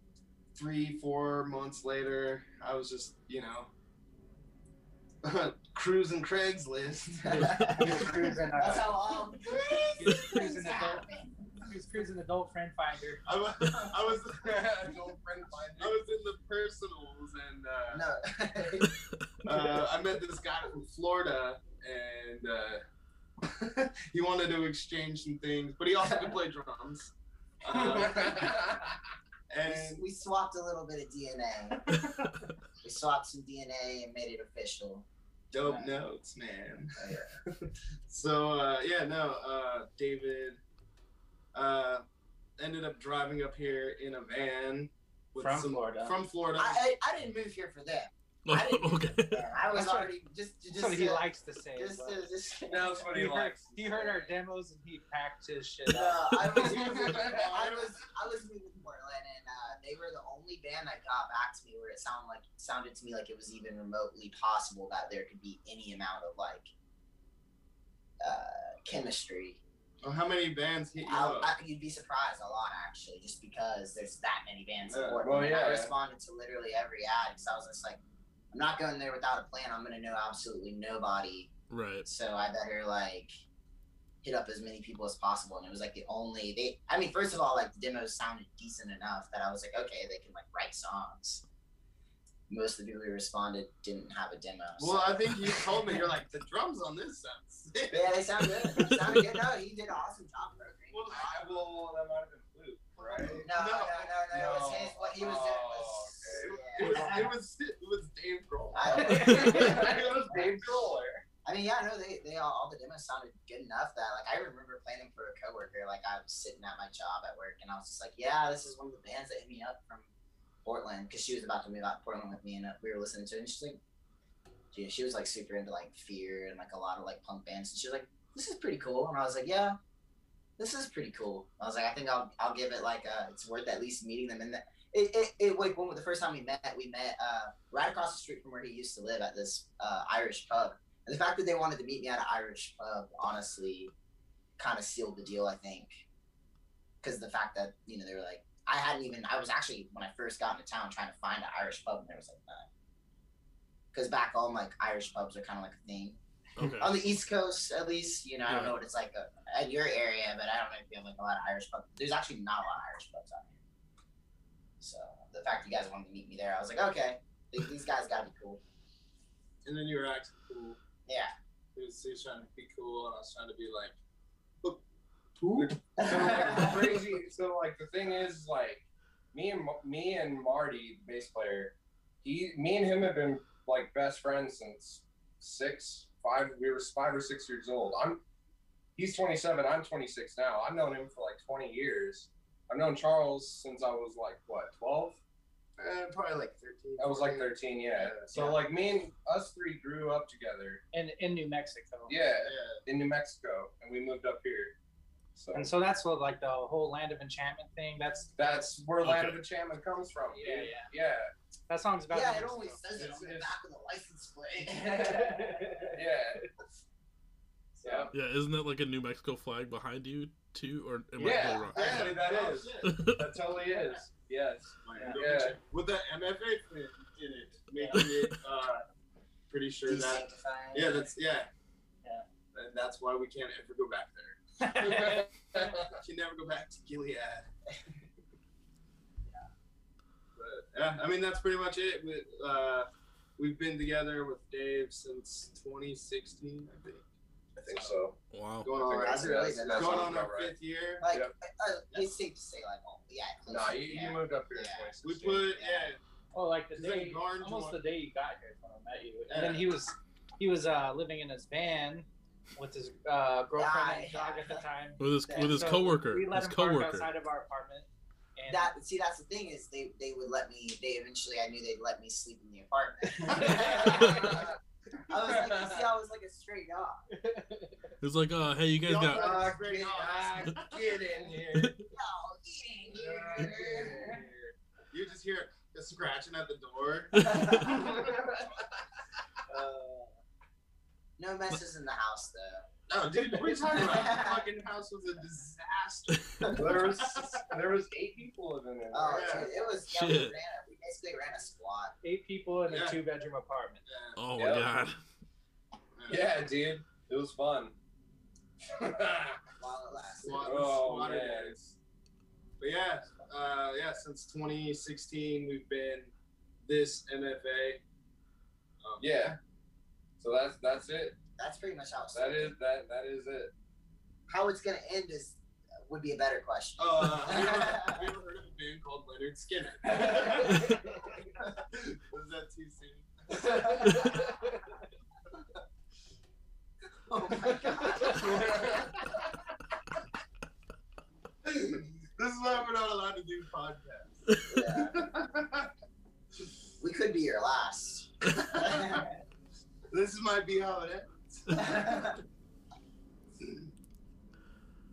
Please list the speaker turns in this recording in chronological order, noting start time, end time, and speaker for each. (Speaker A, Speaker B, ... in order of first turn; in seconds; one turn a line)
Speaker A: 0.5-3.7
Speaker A: 5.2-8.3
Speaker B: 7.2-8.0
Speaker C: 7.3-7.8
Speaker D: 7.8-8.9
Speaker B: 8.6-11.5
Speaker A: 9.4-10.4
Speaker D: 10.0-11.1
Speaker D: 11.6-13.2
Speaker A: 13.2-14.7
Speaker B: 13.6-13.9
Speaker E: 14.4-16.0
Speaker A: 15.8-18.1
Speaker B: 17.9-18.9
Speaker A: 19.4-22.8
Speaker A: 23.4-28.6
Speaker B: 26.0-26.3
Speaker E: 27.7-28.9
Speaker A: 29.5-30.0
Speaker B: 29.6-31.8
Speaker B: 32.8-35.0
Speaker A: 35.5-40.6
Speaker D: 35.6-35.9
Speaker B: 37.0-37.4
Speaker A: 41.5-42.0
Speaker A: 42.6-46.8
Speaker D: 45.4-46.2
Speaker B: 46.5-53.3
Speaker C: 48.5-49.5
Speaker D: 49.7-50.1
Speaker D: 50.7-52.2
Speaker E: 52.7-54.3
Speaker D: 53.1-56.2
Speaker B: 55.9-66.7
Speaker A: 56.5-58.0
Speaker E: 56.5-57.5
Speaker B: 68.2-69.6
Speaker A: 70.0-71.5
Speaker B: 71.0-78.0
Speaker A: 74.9-75.2
Speaker E: 75.2-75.9
Speaker B: 78.5-81.5
Speaker C: 81.7-82.1
Speaker B: 82.0-83.3
Speaker B: 84.2-91.4
Speaker B: 92.5-96.0
Speaker A: 94.8-99.2
Speaker B: 97.9-101.2
Speaker A: 100.9-101.7
Speaker E: 101.1-103.5
Speaker A: 103.0-104.2
Speaker B: 103.4-107.3
Speaker E: 104.3-107.1
Speaker A: 106.3-110.0
Speaker D: 107.0-107.2
Speaker B: 108.7-110.6
Speaker E: 108.8-111.2
Speaker D: 109.1-109.6
Speaker B: 111.4-120.1
Speaker B: 120.6-123.8
Speaker B: 124.7-129.8
Speaker B: 130.6-143.9
Speaker B: 144.6-146.0
Speaker B: 147.0-152.7
Speaker B: 153.9-156.2
Speaker C: 156.6-156.9
Speaker B: 156.8-163.5
Speaker C: 158.5-158.8
Speaker B: 164.8-168.6
Speaker A: 169.6-170.8
Speaker B: 171.1-171.3
Speaker A: 171.7-173.9
Speaker A: 175.4-177.1
Speaker E: 175.5-188.2
Speaker B: 176.0-177.0
Speaker E: 188.9-195.2
Speaker A: 195.8-198.6
Speaker E: 197.0-200.8
Speaker D: 200.9-202.2
Speaker E: 202.1-204.8
Speaker A: 202.4-202.8
Speaker E: 205.3-205.6
Speaker D: 205.5-208.3
Speaker E: 208.4-211.3
Speaker C: 209.0-209.4
Speaker D: 210.3-210.9
Speaker D: 211.7-212.8
Speaker B: 212.1-215.7
Speaker E: 212.9-213.5
Speaker E: 214.7-216.4
Speaker D: 215.2-215.9
Speaker E: 217.8-218.1
Speaker C: 218.1-222.1
Speaker E: 221.2-225.6
Speaker A: 221.7-223.0
Speaker C: 222.8-223.2
Speaker A: 223.7-224.0
Speaker A: 224.8-228.8
Speaker D: 225.0-225.2
Speaker D: 227.8-228.0
Speaker C: 228.0-228.3
Speaker A: 229.5-231.5
Speaker B: 229.8-231.1
Speaker A: 232.5-234.4
Speaker D: 234.6-235.2
Speaker E: 234.8-235.9
Speaker A: 235.9-237.4
Speaker A: 240.4-247.1
Speaker E: 247.6-248.2
Speaker A: 247.6-248.0
Speaker C: 248.3-248.8
Speaker A: 248.6-251.0
Speaker E: 248.8-250.6
Speaker B: 249.0-250.2
Speaker B: 251.0-254.9
Speaker E: 253.5-255.6
Speaker A: 255.0-256.0
Speaker B: 255.6-255.9
Speaker D: 256.3-268.7
Speaker A: 256.7-257.8
Speaker A: 259.3-259.7
Speaker B: 263.5-264.6
Speaker C: 265.0-267.1
Speaker B: 265.2-265.8
Speaker B: 268.5-274.5
Speaker A: 273.3-273.6
Speaker E: 273.4-274.5
Speaker B: 275.1-277.0
Speaker E: 275.2-275.9
Speaker D: 277.1-277.9
Speaker C: 278.0-279.5
Speaker A: 278.8-281.0
Speaker E: 279.1-281.9
Speaker B: 279.4-280.1
Speaker B: 281.9-284.2
Speaker A: 282.9-284.3
Speaker E: 283.4-284.4
Speaker A: 284.9-288.1
Speaker B: 287.2-287.9
Speaker E: 287.8-288.4
Speaker A: 289.5-290.0
Speaker B: 289.5-290.1
Speaker B: 291.2-292.7
Speaker A: 292.9-297.6
Speaker B: 293.4-294.4
Speaker C: 296.1-296.4
Speaker E: 296.5-299.6
Speaker B: 298.9-301.9
Speaker A: 299.1-299.5
Speaker C: 299.9-300.3
Speaker D: 302.0-303.8
Speaker A: 302.7-303.0
Speaker A: 303.9-304.2
Speaker C: 304.1-305.0
Speaker E: 304.4-304.7
Speaker A: 306.0-306.3
Speaker E: 306.1-307.7
Speaker E: 308.7-309.4
Speaker B: 309.6-310.6
Speaker A: 310.2-311.6
Speaker E: 310.4-311.8
Speaker A: 312.6-316.1
Speaker A: 316.6-317.8
Speaker A: 318.8-319.4
Speaker E: 319.0-319.4
Speaker E: 320.2-321.2
Speaker B: 321.4-322.5
Speaker E: 322.1-323.5
Speaker B: 324.3-328.1
Speaker A: 326.8-330.9
Speaker B: 330.0-330.9
Speaker A: 331.7-334.3
Speaker E: 333.4-334.3
Speaker B: 337.1-338.8
Speaker A: 337.3-338.7
Speaker E: 338.0-338.9
Speaker A: 341.4-345.7
Speaker B: 344.5-345.0
Speaker B: 346.8-349.1
Speaker A: 348.4-349.1
Speaker A: 349.9-352.1
Speaker B: 351.5-352.1
Speaker A: 353.4-353.7